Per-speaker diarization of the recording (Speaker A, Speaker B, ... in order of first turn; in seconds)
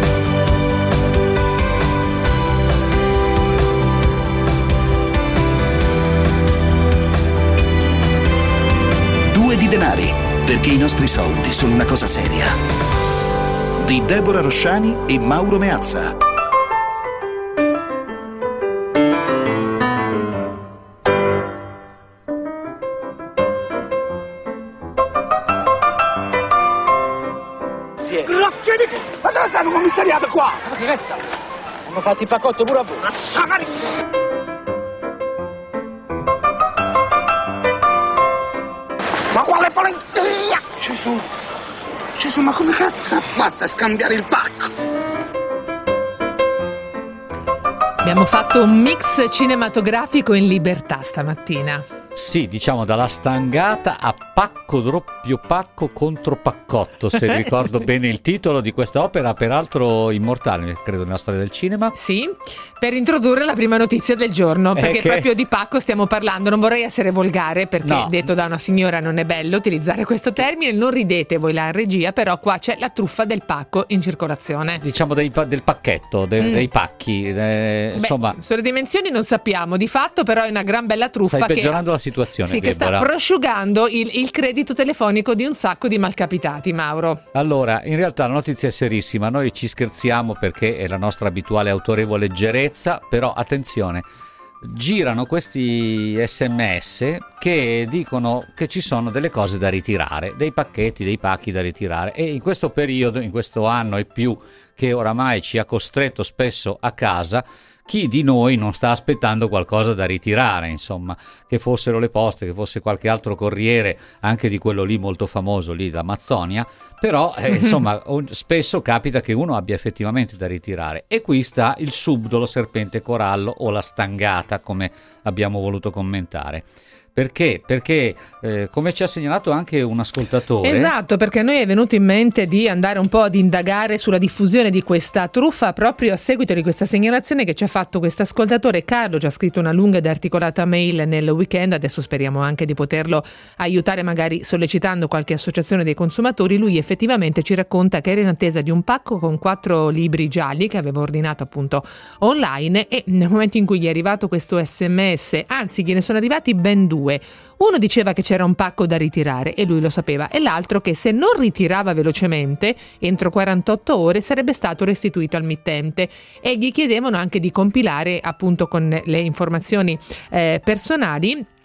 Speaker A: 9.3-12.5, 13.8-16.1
Speaker B: 28.0-28.3, 30.6-31.2, 31.9-33.0
Speaker C: 28.3-30.6, 33.2-33.6, 39.3-41.3, 42.2-44.7
Speaker D: 48.0-51.8, 61.9-74.8, 76.4-76.7, 77.9-81.8, 82.4-87.2, 130.6-171.4
Speaker E: 52.1-61.9, 64.8-65.3, 67.8-68.2, 74.8-78.4, 81.3-83.1, 87.3-94.0, 94.6-130.9